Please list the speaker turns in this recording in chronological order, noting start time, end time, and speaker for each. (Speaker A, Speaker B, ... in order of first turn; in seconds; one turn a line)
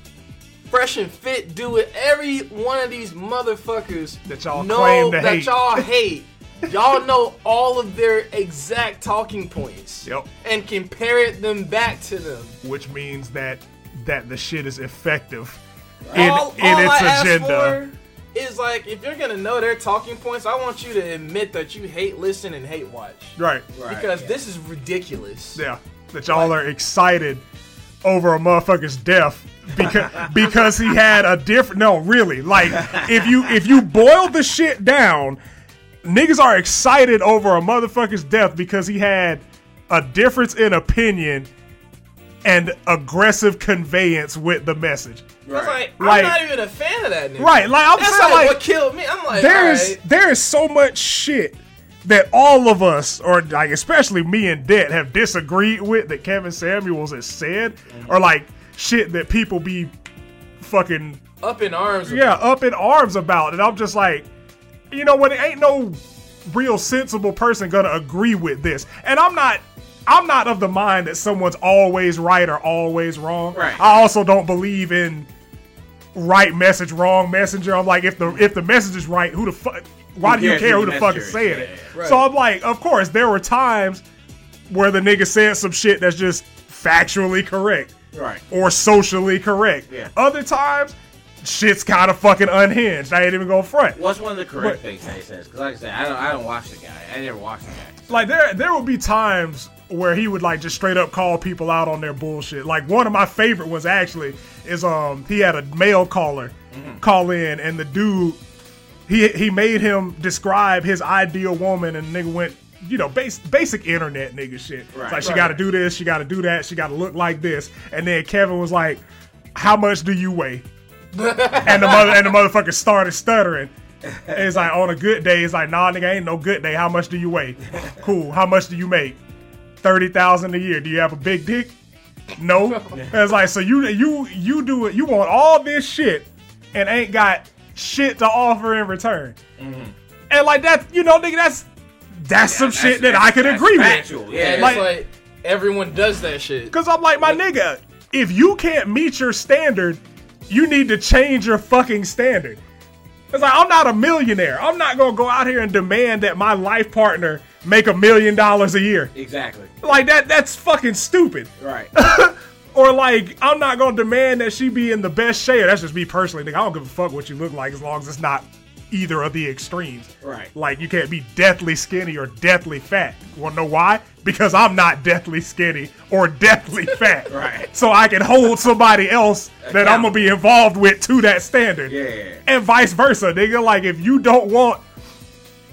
Speaker A: 0.7-12.6
Speaker B: 4.2-5.9
Speaker B: 12.6-15.6
Speaker C: 16.0-16.3
Speaker B: 16.1-17.8
Speaker A: 16.1-25.6
Speaker B: 23.4-23.7
Speaker C: 23.7-24.3
Speaker B: 25.6-27.4
Speaker B: 28.0-35.4
Speaker B: 36.0-41.5
Speaker B: 42.4-45.3
Speaker C: 45.5-45.8
Speaker A: 45.5-50.0
Speaker B: 46.0-46.4
Speaker B: 47.4-48.6
Speaker B: 49.3-59.9
Speaker B: 60.6-61.2
Speaker A: 61.4-62.4
Speaker B: 62.1-64.3
Speaker B: 64.9-75.3
Speaker C: 73.5-73.9
Speaker B: 76.1-84.0
Speaker C: 80.2-81.9
Speaker A: 81.9-82.3
Speaker B: 84.7-87.9
Speaker C: 88.1-88.4
Speaker B: 88.5-94.0
Speaker C: 94.0-98.1
Speaker B: 98.1-108.4
Speaker C: 106.7-107.0
Speaker B: 109.1-119.0
Speaker C: 114.9-115.4
Speaker A: 115.2-115.5
Speaker B: 119.5-120.7
Speaker A: 121.1-122.3
Speaker B: 121.6-123.7
Speaker B: 124.3-129.2
Speaker B: 129.8-131.7
Speaker B: 132.4-139.4
Speaker C: 139.6-139.9
Speaker B: 140.3-144.9
Speaker C: 142.4-144.8
Speaker A: 144.3-147.3
Speaker B: 146.7-152.6
Speaker B: 153.3-159.1
Speaker C: 159.1-159.8
Speaker B: 159.8-181.9
Speaker C: 161.6-161.9
Speaker C: 170.2-170.5
Speaker C: 177.3-177.7
Speaker C: 179.6-180.2
Speaker C: 181.9-182.4
Speaker B: 182.4-184.8